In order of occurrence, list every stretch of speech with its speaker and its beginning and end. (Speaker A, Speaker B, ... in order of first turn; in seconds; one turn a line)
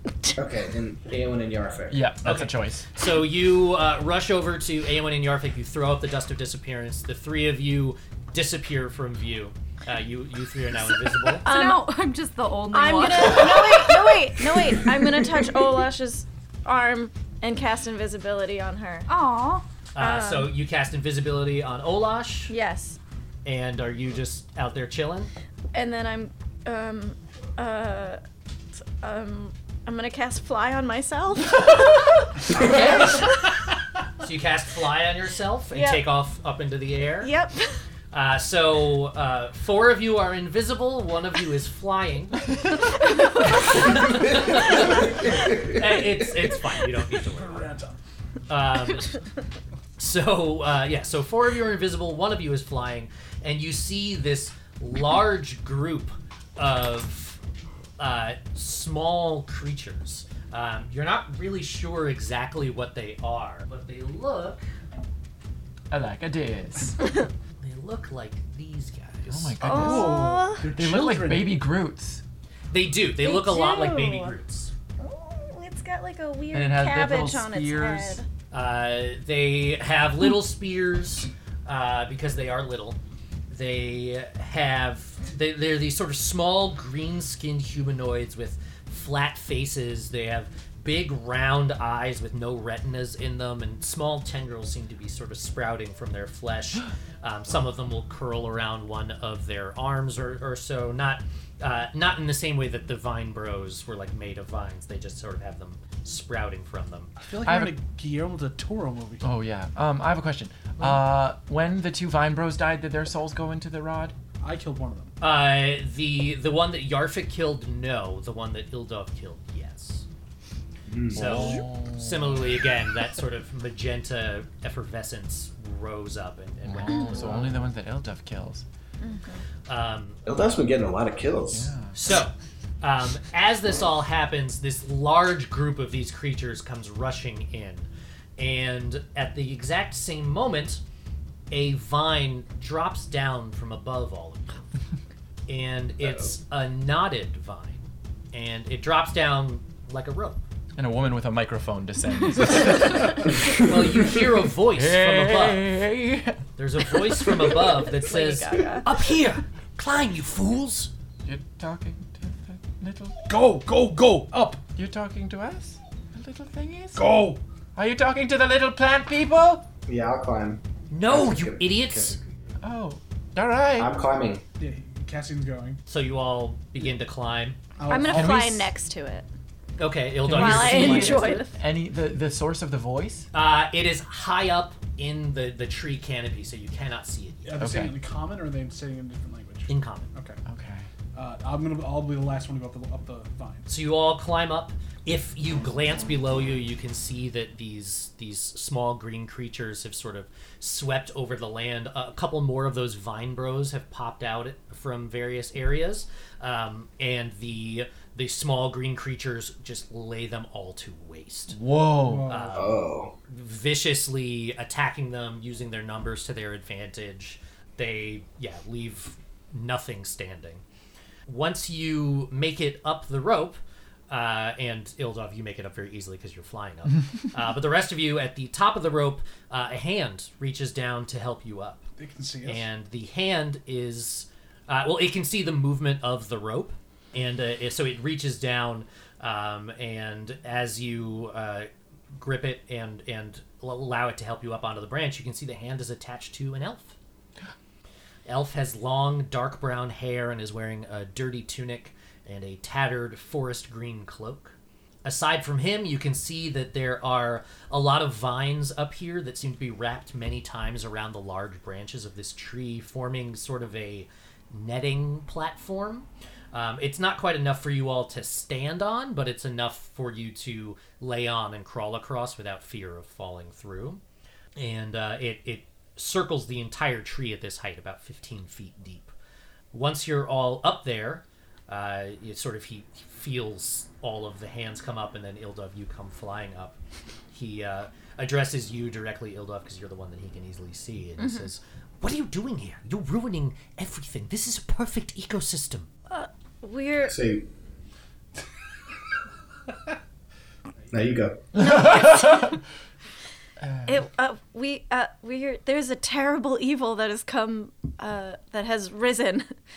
Speaker A: 0.4-2.1
Speaker B: 1.9-2.9
Speaker C: 2.2-11.5
Speaker D: 11.4-14.1
Speaker E: 11.4-11.9
Speaker E: 12.7-19.1
Speaker D: 19.1-19.6
Speaker C: 19.9-22.5
Speaker E: 20.0-20.5
Speaker E: 22.5-23.0
Speaker C: 23.4-25.3
Speaker E: 25.7-28.2
Speaker E: 29.0-33.2
Speaker C: 32.5-33.3
Speaker C: 34.2-37.3
Speaker E: 35.7-36.0
Speaker E: 37.2-37.8
Speaker C: 38.1-42.5
Speaker C: 43.4-47.7
Speaker A: 44.2-45.8
Speaker F: 47.2-48.0
Speaker C: 48.5-49.2
Speaker C: 50.0-57.4
Speaker C: 58.0-64.7
Speaker B: 65.9-67.0
Speaker C: 67.6-69.6
Speaker B: 69.3-72.2
Speaker E: 69.6-70.7
Speaker F: 69.7-71.6
Speaker C: 72.7-74.7
Speaker E: 73.2-74.3
Speaker E: 75.0-78.3
Speaker B: 76.5-78.2
Speaker C: 78.5-83.0
Speaker C: 83.5-107.1
Speaker F: 107.2-109.3
Speaker B: 107.4-107.8
Speaker B: 109.2-114.2
Speaker F: 114.4-115.1
Speaker C: 115.2-120.1
Speaker A: 120.9-121.6
Speaker C: 121.1-127.5
Speaker B: 121.1-122.5
Speaker B: 126.7-128.7
Speaker E: 129.0-129.4
Speaker C: 129.7-130.2
Speaker A: 130.3-131.7
Speaker B: 131.5-131.9
Speaker C: 131.9-140.8
Speaker C: 141.5-144.6
Speaker C: 145.5-150.4
Speaker A: 146.0-146.3
Speaker B: 150.8-154.2
Speaker C: 153.5-155.7
Speaker B: 154.7-157.3
Speaker C: 156.6-160.9
Speaker E: 157.7-158.9
Speaker B: 161.2-163.2
Speaker F: 163.3-164.6
Speaker B: 164.8-169.7
Speaker F: 166.9-167.4
Speaker A: 169.9-172.3
Speaker C: 170.9-172.2
Speaker B: 172.6-173.9
Speaker A: 173.8-174.4
Speaker F: 174.6-175.8
Speaker C: 175.9-177.6
Speaker F: 177.8-178.6
Speaker E: 177.9-179.3
Speaker B: 178.1-178.7
Speaker C: 179.8-181.4
Speaker B: 180.2-183.3
Speaker E: 180.3-181.5
Speaker C: 183.3-187.6
Speaker F: 187.4-190.4
Speaker B: 187.6-187.9
Speaker C: 189.7-190.1
Speaker B: 190.5-190.9
Speaker F: 191.2-193.7
Speaker C: 193.7-211.6
Speaker B: 211.5-212.3
Speaker F: 212.0-212.6
Speaker C: 212.3-220.6
Speaker A: 212.5-213.1
Speaker C: 221.3-231.8
Speaker F: 232.0-232.7
Speaker C: 232.4-247.0
Speaker C: 248.3-274.0
Speaker C: 274.6-279.1
Speaker C: 279.7-286.8
Speaker C: 287.3-295.9
Speaker E: 291.2-291.5
Speaker E: 296.1-297.1
Speaker A: 297.1-297.5
Speaker A: 300.9-301.5
Speaker B: 301.6-302.6
Speaker E: 301.6-302.6
Speaker B: 303.6-304.0
Speaker E: 303.9-309.5